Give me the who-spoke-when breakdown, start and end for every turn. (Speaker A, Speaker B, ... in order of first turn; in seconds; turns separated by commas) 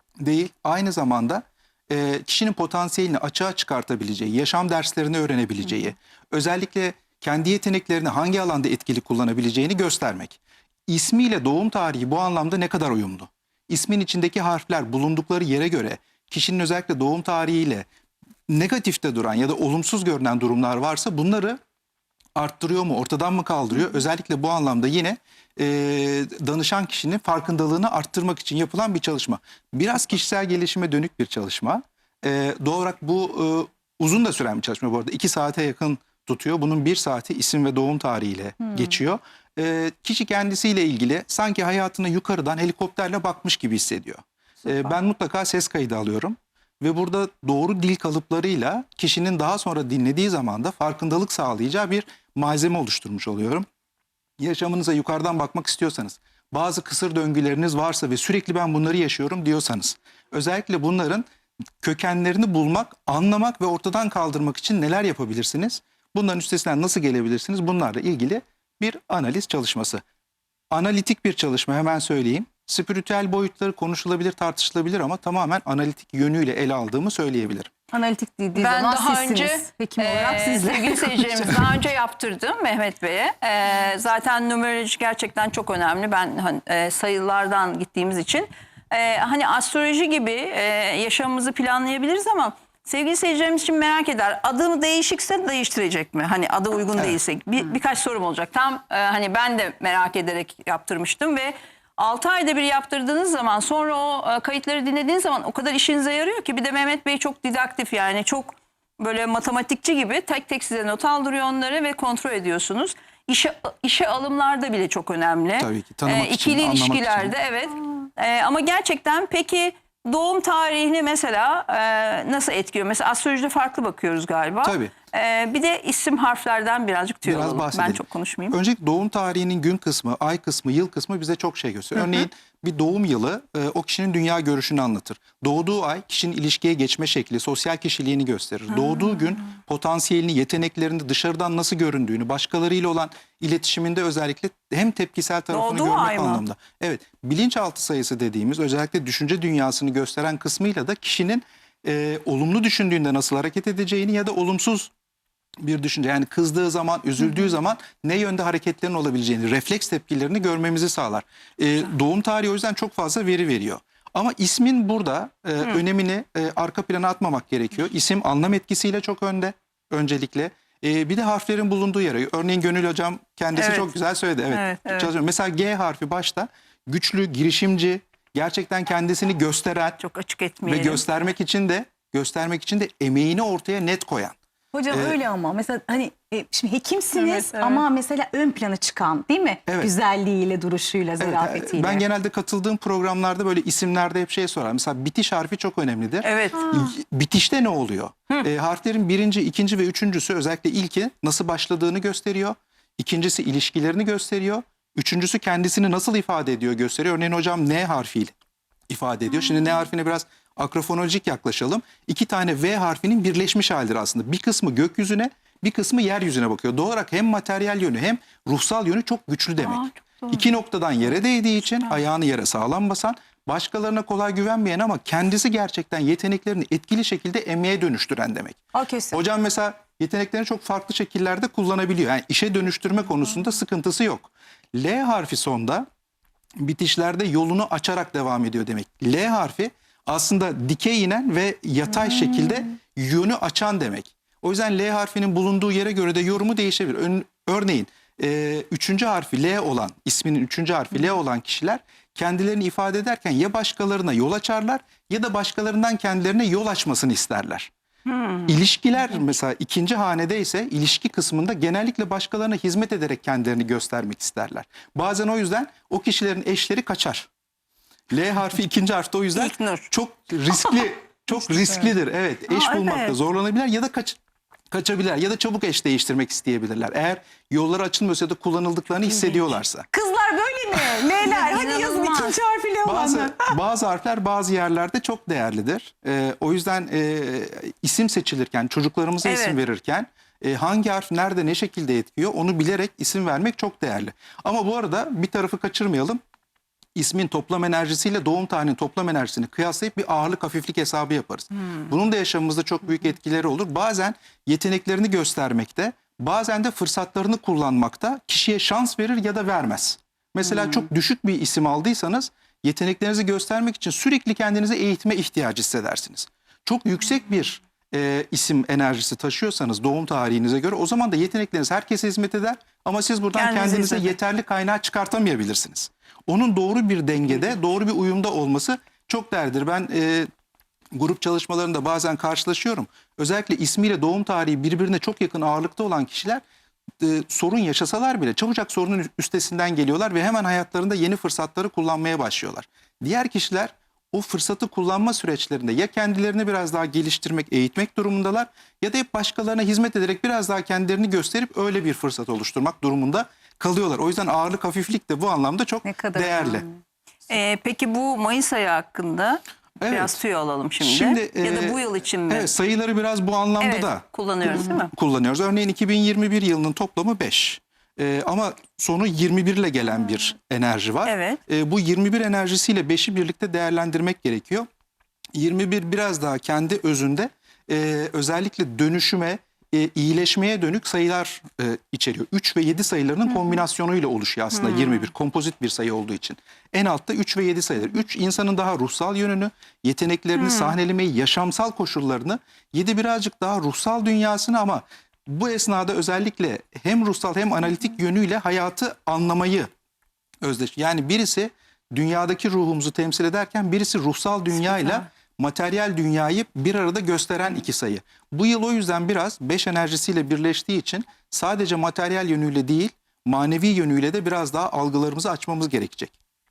Speaker A: 0.2-17.9, Speaker A: 18.5-21.6, Speaker A: 22.4-53.6, Speaker A: 54.4-61.2, Speaker A: 61.8-70.0, Speaker A: 70.7-77.7, Speaker B: 77.9-81.7, Speaker C: 78.5-128.6, Speaker A: 115.6-117.3, Speaker A: 124.6-124.9, Speaker A: 127.2-154.9, Speaker C: 145.5-146.4, Speaker A: 155.6-180.0, Speaker C: 173.6-173.9, Speaker C: 174.5-175.1, Speaker C: 180.0-181.0, Speaker A: 180.6-184.3, Speaker B: 184.7-192.0, Speaker A: 184.9-185.2, Speaker C: 187.1-187.8, Speaker A: 191.2-208.3, Speaker C: 196.2-196.8, Speaker A: 208.9-228.6, Speaker C: 219.6-220.4, Speaker B: 228.7-229.2, Speaker A: 229.1-235.8, Speaker A: 236.6-257.7, Speaker C: 258.1-258.5, Speaker A: 258.4-267.3, Speaker A: 268.1-274.2, Speaker C: 269.3-269.9, Speaker C: 272.5-273.2, Speaker A: 274.7-279.9, Speaker B: 279.9-283.5, Speaker C: 281.2-282.4, Speaker A: 282.8-296.2, Speaker C: 289.2-289.6, Speaker A: 296.9-330.3, Speaker C: 323.3-324.1, Speaker A: 330.9-336.4, Speaker A: 337.0-356.6, Speaker B: 355.8-356.8, Speaker C: 357.3-362.5, Speaker A: 359.8-360.2, Speaker A: 360.8-374.7, Speaker C: 363.6-364.9, Speaker C: 371.0-371.4, Speaker A: 375.3-399.7, Speaker C: 384.5-385.1, Speaker C: 390.3-390.8, Speaker A: 400.4-416.1